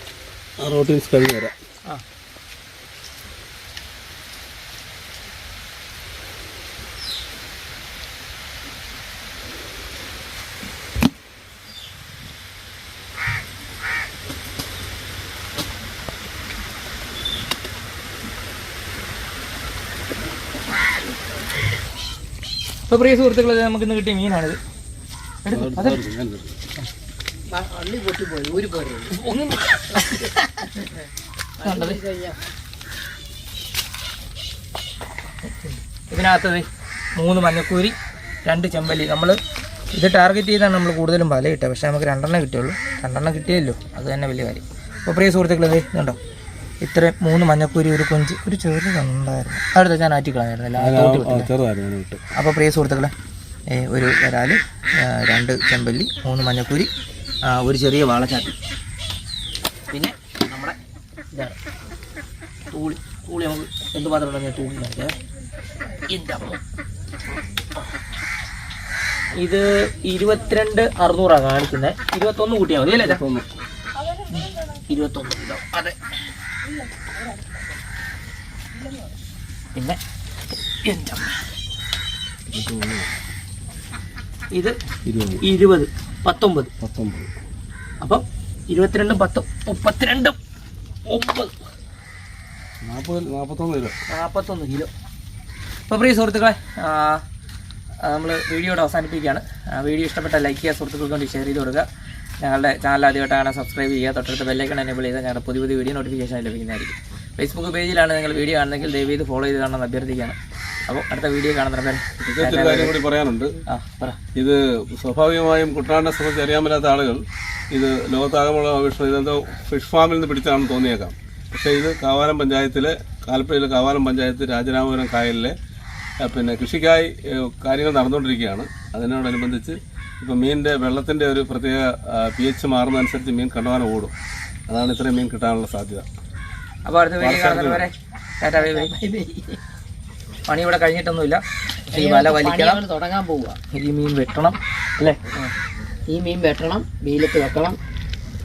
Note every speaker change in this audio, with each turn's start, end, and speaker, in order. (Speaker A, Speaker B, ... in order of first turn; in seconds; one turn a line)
Speaker A: 0.6-1.5
Speaker B: 22.9-24.6
Speaker B: 25.4-26.0
Speaker A: 25.5-26.6
Speaker C: 27.5-29.1
Speaker B: 29.1-30.9
Speaker C: 31.6-32.4
Speaker B: 31.6-32.0
Speaker B: 35.4-39.4
Speaker B: 39.9-46.2
Speaker B: 46.8-51.5
Speaker A: 50.8-52.2
Speaker B: 52.3-53.1
Speaker B: 53.7-56.9
Speaker B: 57.4-58.5
Speaker B: 59.9-60.8
Speaker B: 62.7-65.1
Speaker B: 66.1-66.6
Speaker B: 69.3-73.2
Speaker A: 72.9-73.5
Speaker B: 74.3-76.0
Speaker B: 80.8-81.4
Speaker A: 82.5-83.2
Speaker A: 85.0-85.4
Speaker B: 85.4-86.7
Speaker A: 86.8-87.3
Speaker B: 88.0-90.4
Speaker B: 91.0-91.5
Speaker A: 92.8-93.9
Speaker B: 94.1-94.9
Speaker B: 95.9-97.2
Speaker B: 98.0-101.9
Speaker B: 102.4-113.0
Speaker A: 112.2-113.6
Speaker B: 113.7-114.2
Speaker A: 114.3-125.5
Speaker A: 126.2-134.1
Speaker A: 134.7-136.1
Speaker B: 136.8-139.0
Speaker A: 137.2-137.9
Speaker C: 138.5-139.6
Speaker B: 140.4-142.8
Speaker C: 141.9-143.6
Speaker B: 143.7-145.2
Speaker C: 146.1-147.8